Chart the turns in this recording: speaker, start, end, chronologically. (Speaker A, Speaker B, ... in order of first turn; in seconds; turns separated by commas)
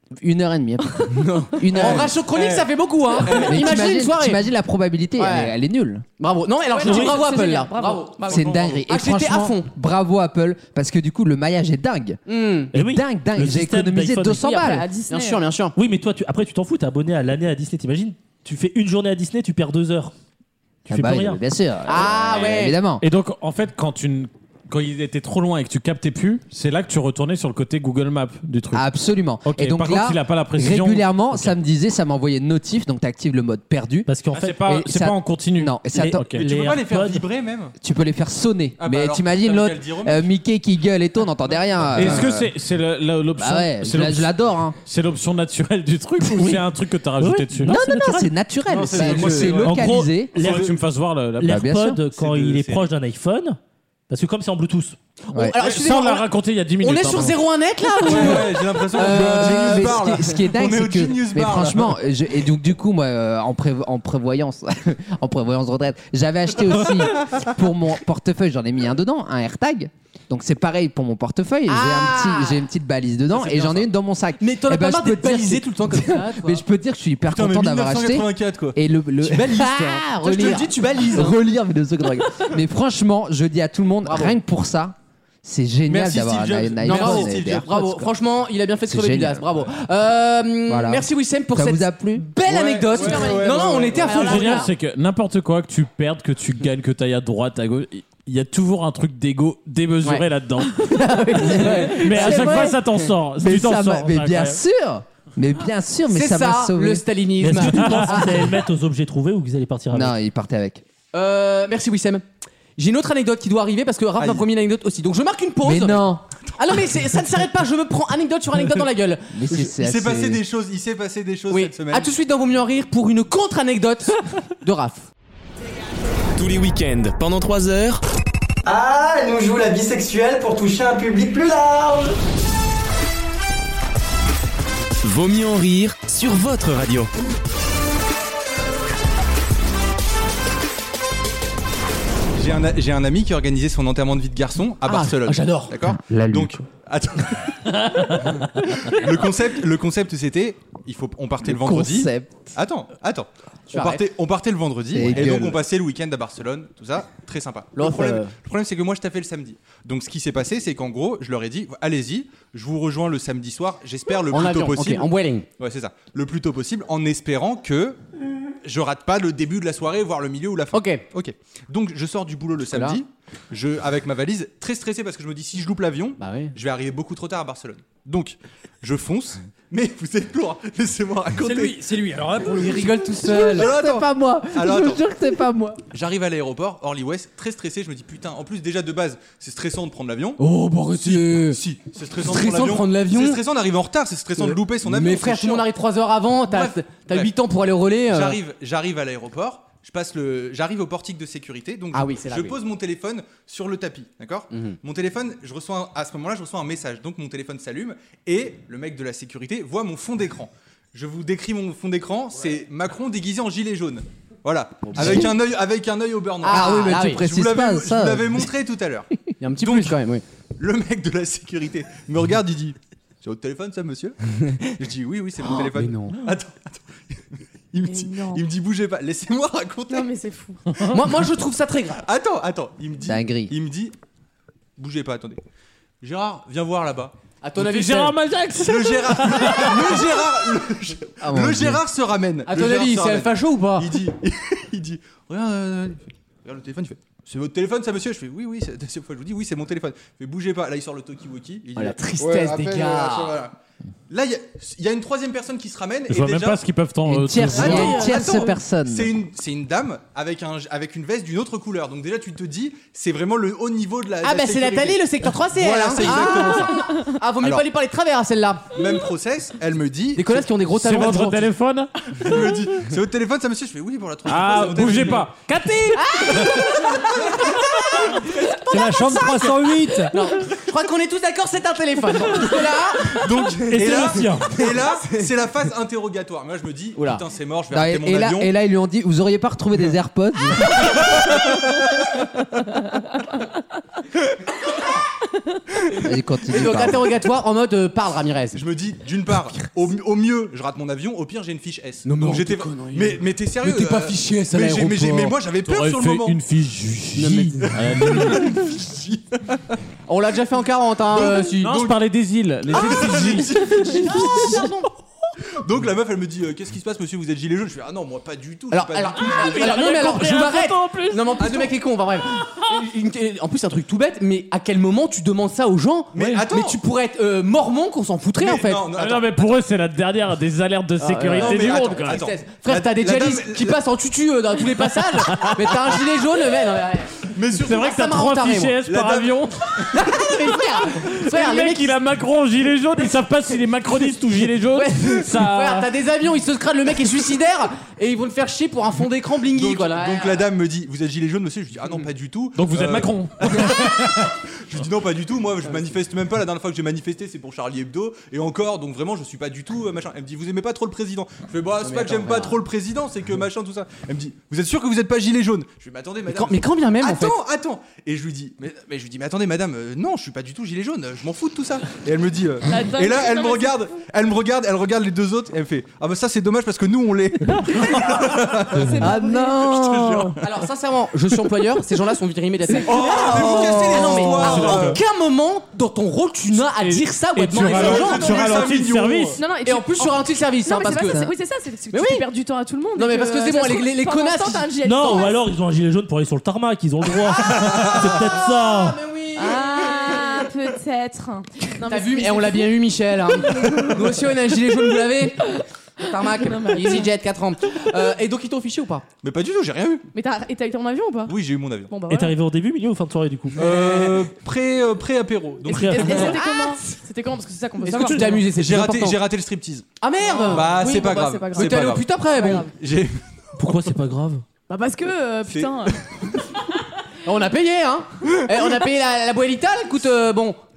Speaker A: 0.1-2.1, Speaker B: 1.1-4.4, Speaker C: 1.8-3.6, Speaker A: 3.3-6.0, Speaker B: 5.2-5.5, Speaker B: 6.2-9.7, Speaker D: 6.7-8.5, Speaker E: 6.9-7.2, Speaker A: 8.2-12.2, Speaker C: 8.3-8.8, Speaker B: 12.3-12.7, Speaker E: 12.7-14.6, Speaker A: 12.7-14.9, Speaker D: 14.4-15.4, Speaker B: 15.1-15.7, Speaker E: 15.7-20.1, Speaker A: 20.9-23.0, Speaker E: 20.9-21.4, Speaker B: 21.9-22.8, Speaker F: 23.0-28.9, Speaker A: 28.7-36.2, Speaker F: 29.4-31.5, Speaker E: 34.1-34.5, Speaker F: 34.3-36.5, Speaker E: 35.9-37.2, Speaker C: 36.4-37.7, Speaker A: 37.8-42.5, Speaker C: 38.8-40.3, Speaker F: 41.9-44.3, Speaker A: 43.4-44.8, Speaker F: 44.8-47.8, Speaker E: 47.2-48.3, Speaker A: 47.6-50.4, Speaker B: 48.7-49.8, Speaker C: 49.0-49.6, Speaker E: 49.6-50.7, Speaker F: 50.3-52.9, Speaker C: 50.4-50.6, Speaker E: 51.4-53.6, Speaker A: 51.4-52.0, Speaker E: 54.1-55.0, Speaker B: 55.3-56.2, Speaker A: 55.3-55.6, Speaker F: 55.6-57.4, Speaker B: 56.8-60.2, Speaker C: 58.0-62.0, Speaker A: 59.0-88.0, Speaker B: 71.7-72.6, Speaker C: 73.3-73.9, Speaker B: 74.4-76.6, Speaker C: 77.3-81.4, Speaker B: 80.3-81.2, Speaker B: 84.0-84.4, Speaker C: 85.8-87.8, Speaker B: 86.8-94.7, Speaker A: 88.9-89.4, Speaker A: 90.7-92.2, Speaker C: 92.4-94.6, Speaker D: 93.0-94.7, Speaker F: 94.1-100.9, Speaker A: 100.8-102.8, Speaker B: 101.0-102.7, Speaker F: 101.5-104.6, Speaker A: 103.4-107.0, Speaker B: 106.1-108.3, Speaker E: 107.4-110.1, Speaker A: 108.1-108.5, Speaker A: 109.9-110.8, Speaker B: 111.1-112.2, Speaker B: 112.8-119.6, Speaker A: 115.6-116.2, Speaker A: 119.3-120.4, Speaker C: 119.7-122.1, Speaker B: 121.5-125.1, Speaker G: 126.3-128.0, Speaker H: 128.7-132.1, Speaker G: 130.8-131.4, Speaker G: 135.0-137.1, Speaker C: 142.3-165.1, Speaker B: 144.8-145.7, Speaker A: 145.8-146.6, Speaker A: 151.4-152.6, Speaker B: 153.7-154.0, Speaker A: 154.9-155.6, Speaker B: 157.8-158.3, Speaker B: 164.3-165.5, Speaker C: 165.6-168.0, Speaker C: 168.6-181.9, Speaker B: 170.7-171.0, Speaker A: 172.6-173.0, Speaker B: 176.2-176.5, Speaker I: 181.4-183.3, Speaker B: 182.6-183.7, Speaker A: 183.3-185.8, Speaker C: 183.4-185.0, Speaker C: 185.9-190.4, Speaker B: 190.4-191.6, Speaker C: 191.0-195.7, Speaker B: 192.2-193.4, Speaker B: 194.4-198.4, Speaker C: 196.5-197.3, Speaker C: 198.1-219.1, Speaker B: 201.9-202.6, Speaker B: 204.5-204.8, Speaker B: 214.8-215.3, Speaker A: 214.9-215.3, Speaker B: 216.4-217.2, Speaker A: 216.5-218.5, Speaker B: 219.4-220.2, Speaker C: 219.6-220.0, Speaker C: 220.6-230.1, Speaker B: 225.4-226.2, Speaker D: 227.9-228.4, Speaker D: 229.9-230.6, Speaker B: 230.9-232.0, Speaker C: 232.0-233.9, Speaker A: 233.0-233.5, Speaker C: 234.8-235.4, Speaker C: 236.0-237.1, Speaker B: 237.4-238.1, Speaker F: 237.6-240.1, Speaker C: 238.6-253.5, Speaker A: 241.2-241.8, Speaker B: 242.5-243.9, Speaker B: 251.8-253.4, Speaker C: 254.1-256.6, Speaker F: 256.1-258.0, Speaker A: 257.1-259.1, Speaker C: 257.5-267.6, Speaker B: 257.6-258.5, Speaker B: 264.2-268.7, Speaker C: 268.7-270.5, Speaker B: 270.1-271.5, Speaker F: 270.7-271.9, Speaker C: 272.1-275.3, Speaker F: 274.2-276.5, Speaker B: 275.9-279.2, Speaker C: 276.5-277.6, Speaker I: 278.6-280.1, Speaker B: 280.1-285.2, Speaker C: 283.1-288.5, Speaker E: 283.7-284.5, Speaker B: 286.9-287.2, Speaker A: 287.7-291.2, Speaker C: 290.8-291.5, Speaker A: 296.0-297.1, Speaker B: 296.5-298.6, Speaker C: 298.5-306.4, Speaker B: 302.0-305.3, Speaker F: 305.6-308.6, Speaker B: 307.1-308.4, Speaker C: 307.9-309.8, Speaker B: 310.1-311.8, Speaker C: 311.1-312.0, Speaker F: 311.6-313.6, Speaker C: 312.7-314.6, Speaker B: 312.8-314.9, Speaker C: 315.6-319.6, Speaker B: 318.7-328.9, Speaker E: 319.5-321.1, Speaker F: 319.6-321.4, Speaker C: 321.4-321.7, Speaker C: 326.1-326.8, Speaker C: 328.4-329.5, Speaker F: 328.9-332.2, Speaker B: 331.0-338.8, Speaker C: 331.4-333.8, Speaker C: 337.3-338.1, Speaker F: 337.6-339.6, Speaker C: 338.8-339.5, Speaker B: 339.9-342.0, Speaker F: 341.2-345.9, Speaker B: 344.7-350.4, Speaker C: 349.5-380.6, Speaker F: 352.6-354.2, Speaker B: 361.8-362.6, Speaker B: 366.3-367.3, Speaker D: 372.7-373.8, Speaker D: 378.7-379.7, Speaker A: 378.9-380.4, Speaker B: 380.4-388.4, Speaker C: 382.8-385.0, Speaker A: 383.4-384.4, Speaker F: 384.4-385.0, Speaker F: 386.7-389.4, Speaker C: 387.5-389.4, Speaker D: 389.4-395.4, Speaker B: 389.6-391.2, Speaker A: 391.1-391.3, Speaker B: 391.9-392.2, Speaker B: 392.9-394.7, Speaker E: 394.8-399.0, Speaker C: 397.6-398.1, Speaker B: 398.6-400.5, Speaker D: 399.3-402.7, Speaker B: 401.8-409.0, Speaker D: 406.4-407.1, Speaker C: 409.2-410.1, Speaker D: 410.1-411.4, Speaker C: 411.3-411.9, Speaker D: 411.9-412.4, Speaker E: 412.1-413.6, Speaker C: 413.6-416.4, Speaker B: 413.6-414.2, Speaker E: 415.7-416.2, Speaker D: 415.7-418.4, Speaker B: 416.1-416.7, Speaker B: 417.8-419.2, Speaker C: 418.5-422.1, Speaker B: 420.0-420.9, Speaker D: 420.3-422.7, Speaker B: 421.5-422.6, Speaker C: 422.7-423.2, Speaker E: 423.6-424.4, Speaker D: 424.7-426.0, Speaker C: 425.5-426.4, Speaker B: 427.2-430.6